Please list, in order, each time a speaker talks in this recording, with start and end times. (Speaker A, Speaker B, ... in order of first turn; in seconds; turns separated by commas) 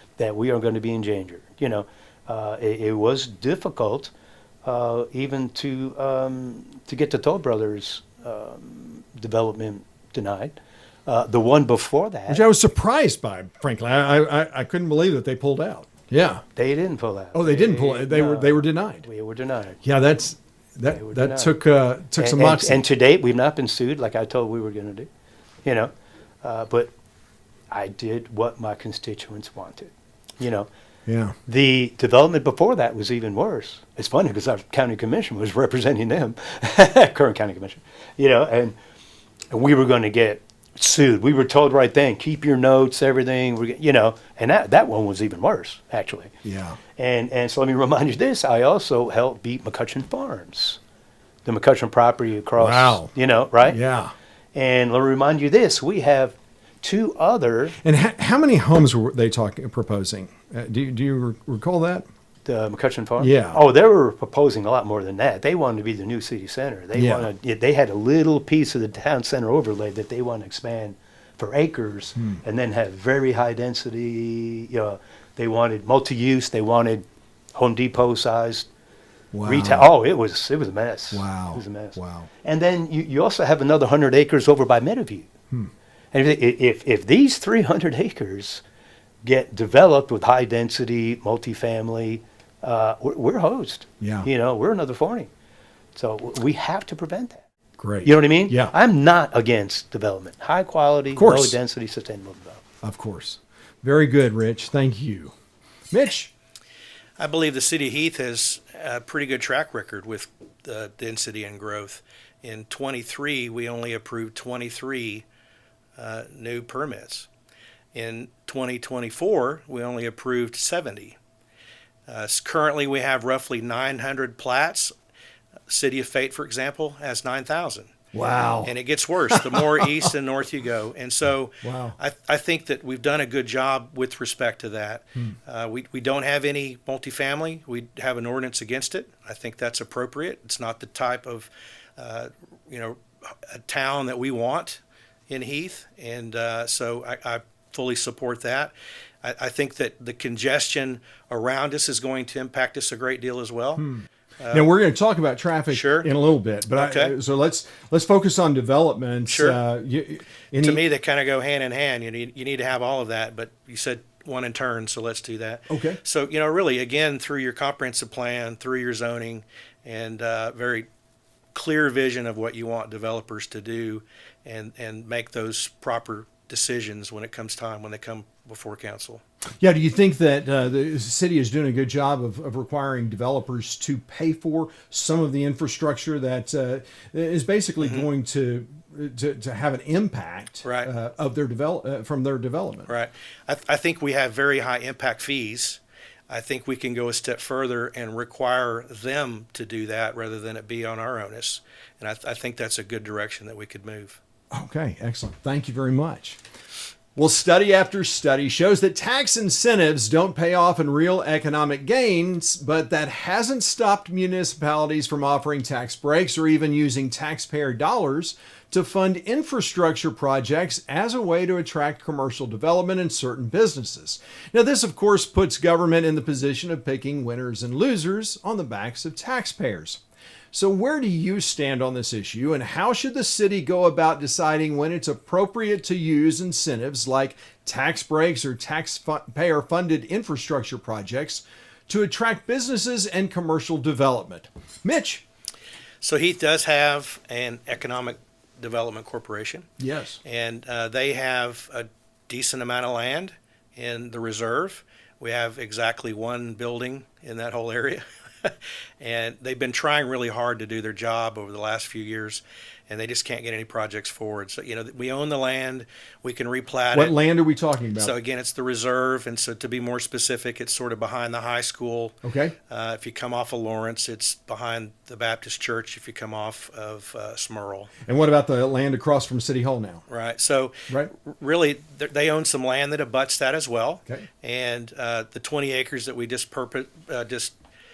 Speaker A: 0.2-4.1, Speaker A: 4.7-10.6, Speaker A: 11.1-12.4, Speaker B: 12.3-16.4, Speaker A: 16.6-19.8, Speaker B: 17.3-19.1, Speaker B: 19.8-22.8, Speaker A: 20.9-21.6, Speaker A: 22.2-25.1, Speaker A: 25.6-25.9, Speaker A: 26.4-26.9, Speaker A: 27.7-30.7, Speaker B: 31.1-31.4, Speaker A: 31.5-38.8, Speaker A: 39.5-46.3, Speaker B: 46.4-46.8, Speaker A: 47.0-50.8, Speaker A: 51.5-53.8, Speaker B: 52.6-53.1, Speaker B: 53.6-54.1, Speaker A: 54.5-57.8, Speaker B: 57.8-62.0, Speaker A: 62.5-77.0, Speaker B: 63.2-63.6, Speaker B: 66.9-67.3, Speaker B: 72.2-72.4, Speaker A: 77.6-78.7, Speaker B: 79.3-79.9, Speaker A: 79.5-85.3, Speaker B: 81.1-82.3, Speaker A: 86.1-88.6, Speaker A: 89.2-95.3, Speaker B: 94.0-94.3, Speaker A: 96.0-97.5, Speaker B: 97.8-98.7, Speaker A: 98.0-102.6, Speaker B: 101.1-101.6, Speaker B: 102.8-105.3, Speaker B: 105.9-106.3, Speaker C: 107.2-115.3, Speaker C: 116.0-117.3, Speaker C: 117.9-121.2, Speaker C: 122.1-124.9, Speaker C: 125.7-127.9, Speaker B: 128.1-128.8, Speaker C: 128.6-153.8, Speaker B: 129.3-129.9, Speaker B: 131.6-132.0, Speaker B: 153.8-160.8, Speaker C: 154.4-154.7, Speaker C: 155.7-156.1, Speaker C: 156.8-157.2, Speaker C: 159.3-159.6, Speaker C: 160.6-170.9, Speaker B: 165.7-166.0, Speaker C: 171.5-179.2, Speaker B: 179.6-192.9, Speaker C: 187.8-188.1, Speaker C: 190.6-190.9, Speaker C: 192.9-204.2, Speaker B: 204.5-206.4, Speaker B: 207.2-230.0, Speaker B: 230.5-245.2, Speaker C: 246.0-249.7, Speaker B: 249.8-250.2, Speaker C: 250.2-267.1, Speaker B: 266.9-268.2, Speaker C: 268.0-272.2, Speaker B: 272.2-272.6, Speaker C: 272.7-277.9, Speaker B: 278.1-280.0, Speaker C: 280.1-287.5